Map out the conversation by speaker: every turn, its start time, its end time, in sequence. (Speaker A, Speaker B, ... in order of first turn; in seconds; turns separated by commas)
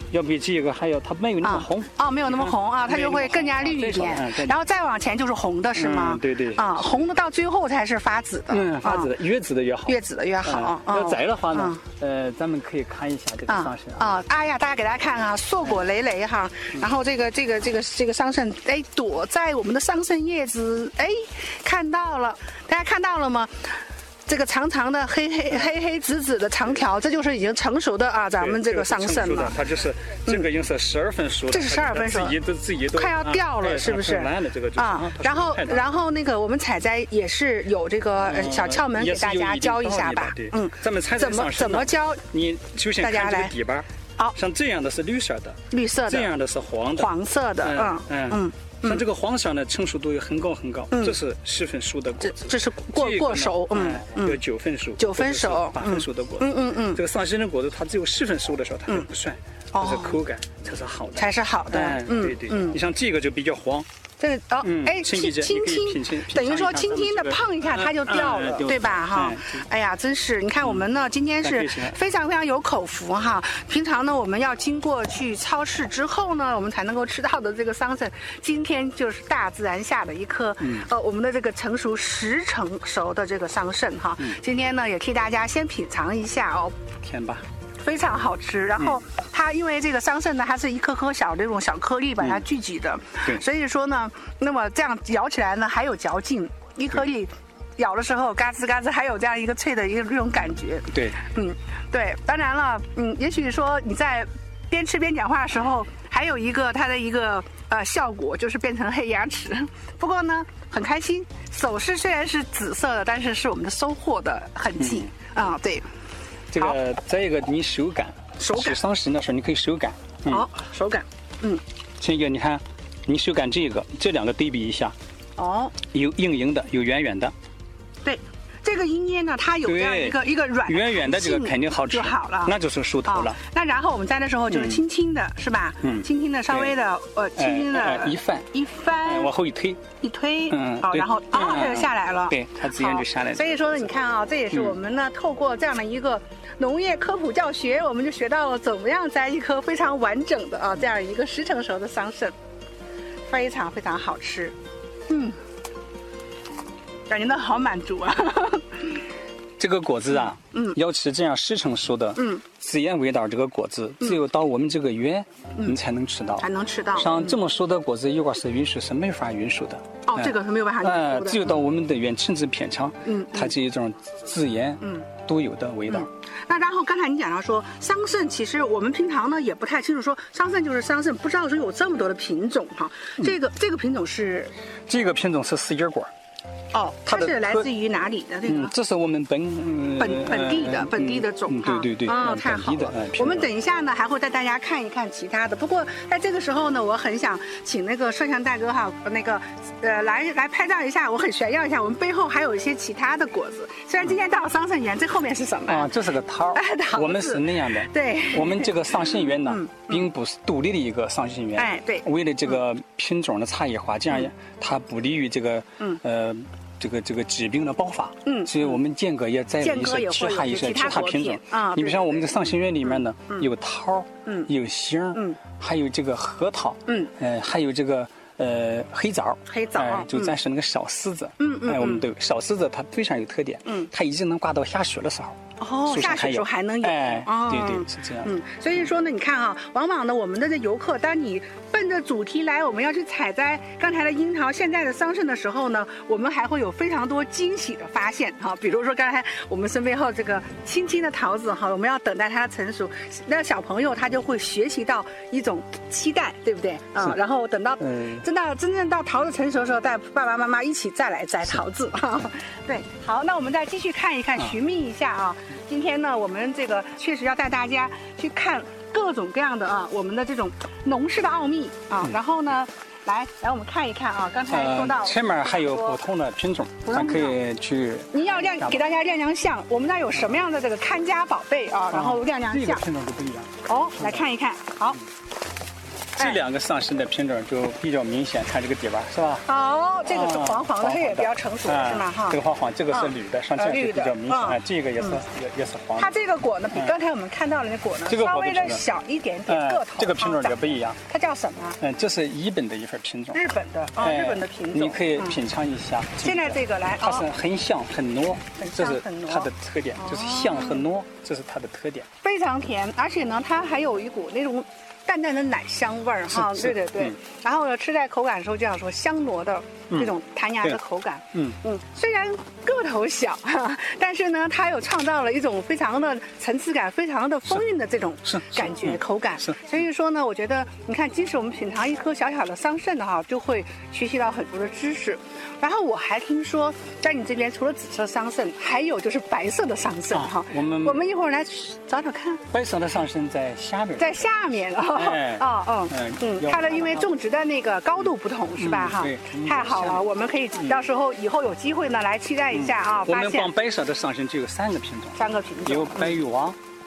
Speaker A: 0.1-4.6, Speaker B: 1.4-9.1, Speaker A: 5.8-7.1, Speaker A: 8.5-14.2, Speaker B: 9.9-11.8, Speaker B: 13.5-29.6, Speaker A: 28.4-35.9, Speaker B: 31.5-32.4, Speaker B: 32.9-42.2, Speaker A: 38.2-63.9, Speaker B: 43.0-43.5, Speaker B: 45.7-46.3, Speaker B: 47.0-49.0, Speaker B: 50.9-51.2, Speaker B: 52.2-54.4, Speaker B: 55.0-57.0, Speaker B: 59.7-60.2, Speaker B: 61.1-62.8, Speaker B: 64.2-86.8, Speaker A: 64.6-69.7, Speaker A: 71.4-72.0, Speaker A: 80.6-80.9, Speaker A: 87.0-87.5, Speaker B: 87.8-115.9, Speaker A: 100.9-101.2, Speaker A: 114.8-115.1, Speaker A: 116.5-120.5, Speaker B: 118.4-118.8, Speaker B: 120.3-121.6, Speaker A: 122.0-125.0, Speaker B: 125.4-125.8, Speaker A: 125.9-127.3, Speaker B: 128.0-139.3, Speaker A: 129.7-133.4, Speaker A: 134.5-134.8, Speaker A: 135.8-136.7, Speaker A: 137.4-138.5, Speaker A: 139.0-139.8, Speaker B: 140.0-152.3, Speaker A: 140.5-143.7, Speaker B: 153.3-154.6, Speaker B: 155.1-155.4, Speaker B: 157.1-159.0, Speaker A: 159.6-176.1, Speaker B: 160.3-160.8, Speaker B: 162.2-162.5, Speaker B: 166.4-167.4, Speaker B: 170.1-171.6, Speaker B: 173.1-173.6, Speaker B: 174.8-175.1, Speaker B: 175.9-184.5, Speaker A: 184.9-186.1, Speaker B: 186.7-188.7, Speaker A: 187.1-187.7, Speaker A: 188.5-193.5, Speaker B: 190.0-205.9, Speaker A: 205.7-238.3, Speaker B: 206.5-210.1, Speaker B: 211.6-212.6, Speaker B: 218.2-218.8, Speaker B: 219.6-223.5, Speaker B: 224.2-224.5, Speaker B: 225.1-225.4, Speaker B: 226.9-227.1, Speaker B: 229.5-230.4, Speaker B: 231.4-232.1, Speaker B: 233.7-233.9, Speaker B: 235.6-276.0, Speaker A: 257.8-258.2, Speaker A: 274.5-278.8, Speaker B: 276.8-277.4, Speaker B: 278.1-282.8, Speaker A: 281.9-284.3, Speaker B: 283.6-285.0, Speaker A: 286.2-289.4, Speaker B: 289.4-295.2, Speaker A: 290.1-296.1, Speaker B: 296.0-301.8, Speaker A: 298.1-298.8, Speaker A: 299.5-301.0, Speaker A: 301.8-303.4, Speaker B: 303.3-305.4, Speaker A: 304.0-312.1, Speaker B: 306.2-307.3, Speaker B: 308.6-310.9, Speaker B: 312.2-342.4, Speaker A: 316.3-317.2, Speaker A: 328.2-329.7, Speaker A: 340.1-341.0, Speaker A: 342.5-344.3, Speaker B: 344.0-353.5, Speaker A: 344.8-347.1, Speaker A: 348.6-350.1, Speaker A: 350.6-350.9, Speaker A: 352.5-356.6, Speaker B: 355.2-356.2